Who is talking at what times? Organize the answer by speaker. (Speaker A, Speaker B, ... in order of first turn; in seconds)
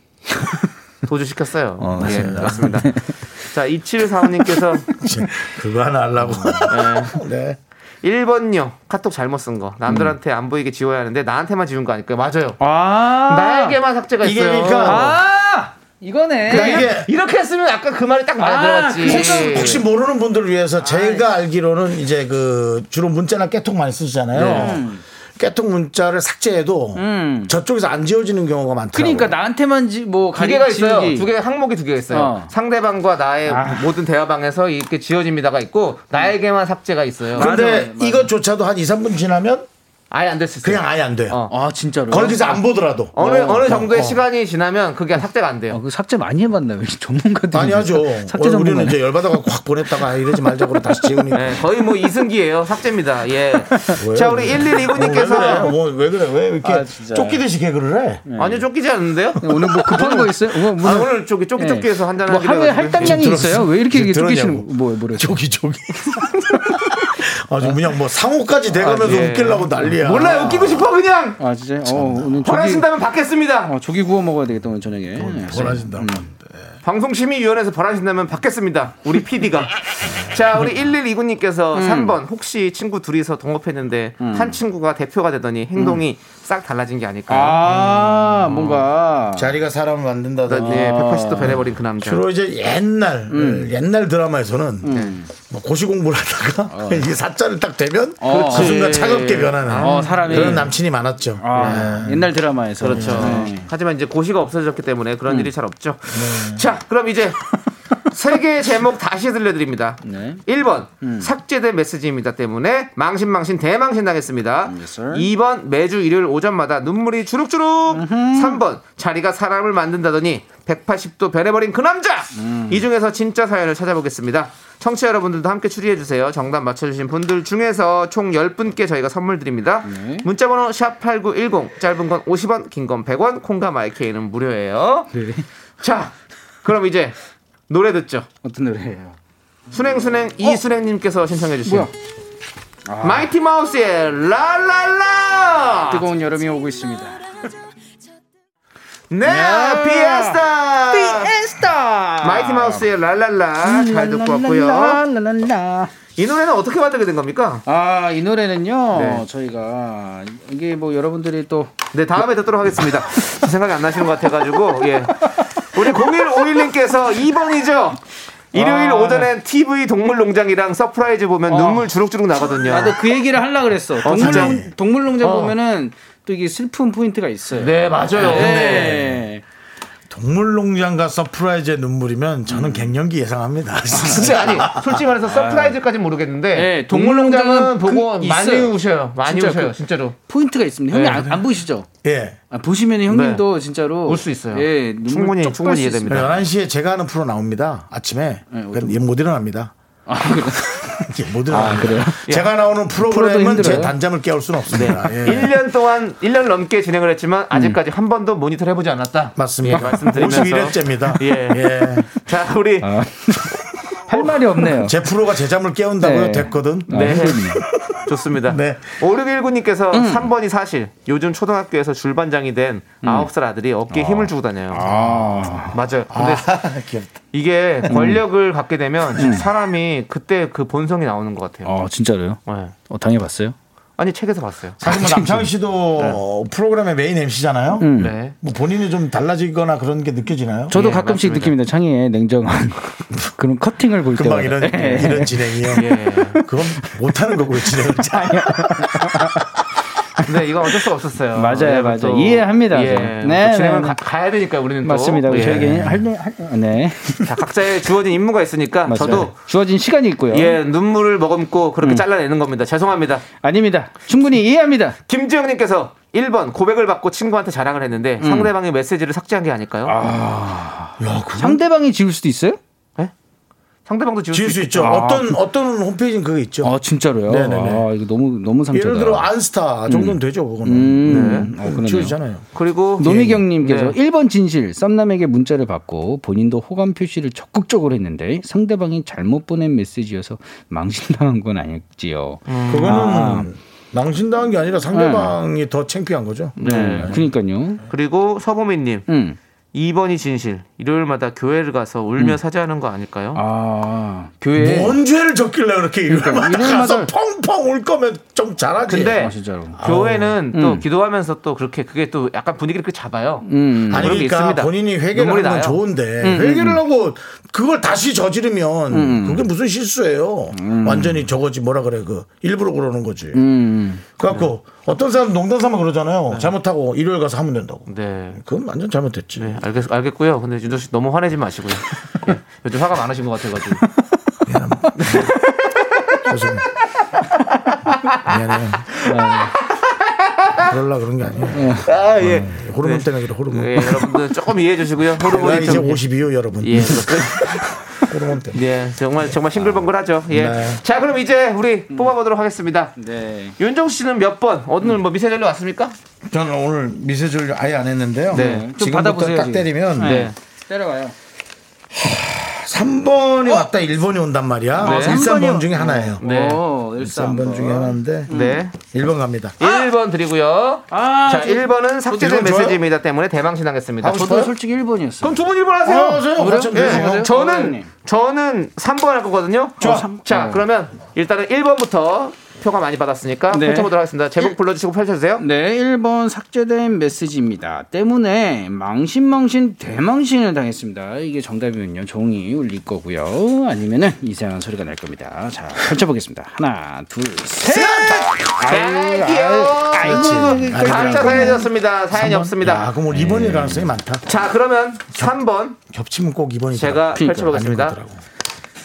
Speaker A: 0.3-0.7, 1.8-3.1, 6.2-6.7, 9.9-10.2, 12.6-13.8, 14.8-16.9, 18.4-19.8, 20.8-21.2, 24.4-25.0, 26.9-27.5, 28.9-31.3, 32.1-32.5, 33.5-33.9, 37.3-38.3, 41.5-42.6, 43.2-43.7, 45.7-49.0, 50.0-50.9, 53.7-54.0, 55.1-55.7, 56.6-57.4, 58.2-58.6, 59.4-65.4, 66.5-67.8, 68.7-70.7, 71.4-72.9, 73.7-76.3, 81.7-82.2, 84.2-84.6, 85.8-86.0, 87.3-89.5, 90.6-91.7, 93.3-93.7, 94.8-95.3, 96.7-97.1, 98.2-98.9, 99.8-100.8, 101.4-103.7, 110.0-110.4, 111.0-111.3, 114.7-115.3, 117.9-118.6, 122.3-122.8, 129.8-130.3, 135.1-135.4, 138.4-139.2, 141.6-141.9, 142.9-143.3, 145.9-147.5, 149.2-152.9, 153.6-156.0, 157.7-161.8, 165.8-166.1, 168.5-169.3, 171.5-171.9, 172.5-179.4, 182.5-182.9, 183.9-185.8, 186.5-191.9, 192.5-196.3, 198.5-199.0, 200.1-202.2, 203.0-203.9, 204.8-205.4, 207.5-207.8, 209.7-210.5, 212.8-215.1, 216.0-217.7, 219.9-220.3, 223.0-223.3, 223.9-225.8, 227.9-228.2, 229.2-229.5, 231.6-233.6, 234.8-235.5, 237.8-238.2, 240.7-247.0, 247.6-249.6, 251.3-254.0, 254.8-257.3, 258.9-260.6, 261.8-262.1, 263.4-265.0, 268.2-268.5, 269.9-272.6, 274.8-275.4, 276.6-279.3, 279.9-282.2, 283.0-293.5, 294.9-295.4, 296.6-297.8, 299.1-299.4, 303.3-305.0, 306.1-307.1, 309.1-309.8, 310.5-310.8, 313.4-314.2, 316.2-316.8, 318.9-319.5, 320.5-321.2, 323.3-324.0, 339.1-339.5, 341.5-341.9, 345.4-346.0, 353.0-353.6, 358.3-361.1, 364.8-368.7, 370.9-372.3, 374.1-375.4, 376.1-377.9, 379.8-380.6, 383.5-384.6, 385.4-401.7, 403.1-403.9, 407.1-407.5
Speaker B: 1.1-4.9, 6.7-7.2, 8.0-12.6, 13.2-15.2, 16.4-19.8, 24.3-24.8, 30.3-37.5, 40.1-41.5, 43.1-45.8, 51.3-55.7, 58.4-63.2, 68.8-71.4, 72.4-73.7, 76.8-87.6, 88.5-88.8, 90.5-92.2, 98.2-100.7, 101.5-101.9, 102.8-107.4, 108.0-135.1, 135.8-137.2, 137.7-138.3, 139.7-141.9, 143.0-146.1, 149.1-151.3, 152.2-155.0, 156.2-157.6, 158.9-159.2, 161.9-168.0, 168.5-173.0, 174.0-174.6, 175.2-175.5, 177.6-179.0, 184.0-190.2, 190.9-191.3, 193.1-193.4, 194.1-196.4, 203.6-203.9, 204.7-212.9, 216.9-224.9, 225.7-226.5, 227.3-231.7, 232.4-232.7, 234.0-234.8, 237.9-238.3, 240.7-241.5, 245.8-246.4, 250.2-255.7, 257.2-259.3, 260.3-263.2, 265.1-270.0, 273.9-274.9, 281.1-281.5, 282.5-284.0, 292.5-293.2, 296.6-297.2, 297.9-299.0, 299.7-303.4, 308.9-315.8, 327.9-328.4, 329.3-333.8, 334.9-336.0, 337.9-338.2, 338.8-340.7, 341.8-346.0, 346.6-347.6, 348.5-352.9, 353.6-355.9, 358.3-358.7, 360.0-360.4, 364.8-365.2, 366.2-366.6, 368.3-368.7, 369.6-374.4, 375.2-385.4, 398.4-402.9, 404.2-405.8, 406.7-408.0
Speaker C: 2.1-2.6, 4.9-7.6, 14.2-15.2, 16.5-17.1, 19.0-29.4, 37.4-39.7, 40.6-41.4, 42.1-44.2, 47.5-51.6, 53.9-58.2, 59.5-60.2, 63.0-70.8, 71.8-72.4, 75.2-76.5, 87.7-88.4, 89.3-102.3, 102.9-103.5, 106.1-106.6, 174.2-174.7, 178.2-179.1, 180.1-185.0, 192.0-192.4, 196.1-199.7, 200.8-205.5, 209.3-212.1, 214.7-219.0, 224.9-225.5, 226.1-227.2, 234.8-240.7, 244.1-249.4, 255.4-256.1, 271.0-271.6, 274.3-277.9, 278.7-282.4, 292.7-297.2, 304.5-310.4, 313.9-323.4, 324.2-329.6, 334.4-335.3, 336.2-336.6, 338.2-338.9, 340.6-344.1, 345.2-348.6, 350.3-350.8, 356.3-360.3, 361.9-366.2, 367.0-369.6, 372.2-372.8, 374.0-374.5, 375.8-377.3, 379.8-380.1, 397.7-398.3, 400.0-404.3, 405.9-408.2